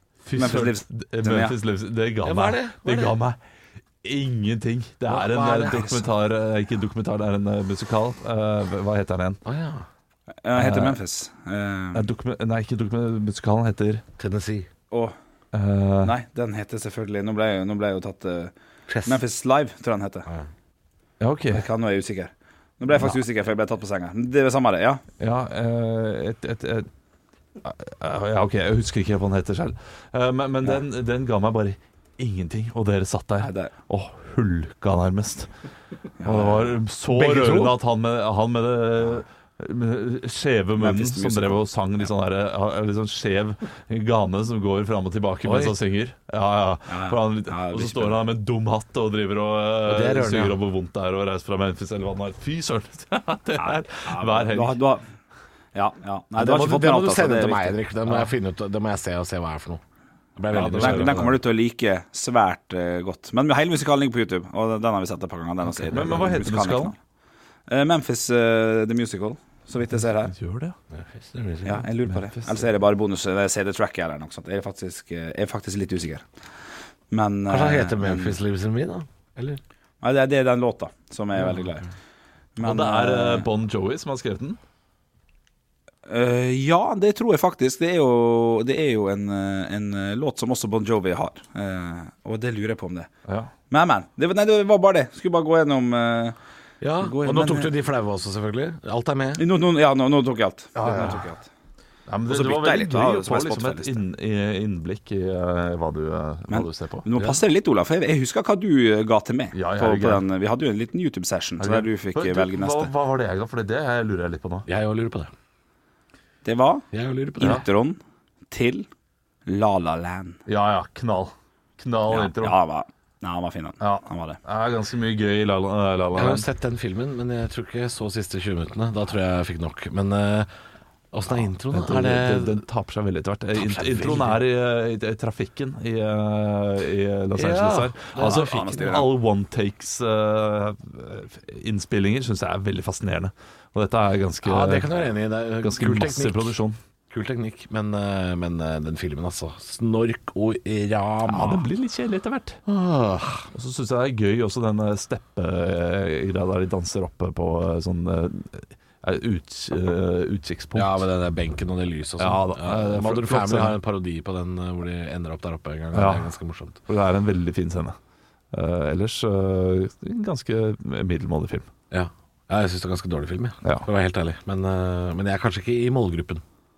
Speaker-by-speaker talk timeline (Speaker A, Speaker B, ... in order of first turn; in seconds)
Speaker A: 0.2-3.4, 4.0-9.4, 10.6-11.0, 11.9-14.0, 15.5-16.1, 21.2-21.7, 25.2-26.9, 27.6-35.5, 36.2-54.8, 60.5-61.3, 65.9-66.9, 70.2-70.8, 72.1-72.6, 82.6-84.6, 100.8-101.3, 102.1-107.4, 109.5-110.2, 111.6-114.7, 120.5-122.6, 123.8-126.5, 131.7-144.9, 145.6-146.8, 151.3-152.6, 153.5-161.0, 162.2-163.8, 165.9-166.3, 166.9-167.9, 168.5-171.7
Speaker B: 0.4-1.6, 5.5-6.0, 10.4-12.1, 16.0-18.5, 19.1-20.3, 21.5-25.0, 33.4-33.7, 36.2-36.8, 40.8-41.6, 46.9-48.2, 53.6-55.0, 55.7-57.8, 60.7-67.0, 67.7-70.3, 71.7-76.2, 77.1-78.4, 80.0-81.9, 82.6-83.5, 86.1-93.1, 93.7-96.4, 97.0-97.7, 99.4-101.5, 102.3-104.0, 106.5-112.9, 116.5-116.8, 117.4-118.0, 118.5-118.9, 119.5-120.4, 122.1-124.4, 138.2-139.1
Speaker C: 2.2-3.2, 5.1-5.8, 9.4-9.9, 14.2-14.7, 18.9-19.2, 37.1-37.8, 45.4-45.8, 49.9-50.6, 56.4-59.8, 60.4-61.4, 65.9-66.2, 70.9-71.9, 77.5-79.6, 96.8-99.4, 114.7-115.3, 116.9-117.7, 126.1-130.5, 131.1-132.6, 133.5-134.4, 137.3-138.8, 144.4-146.6, 147.1-151.7, 152.7-153.5, 160.8-166.8, 171.9-176.4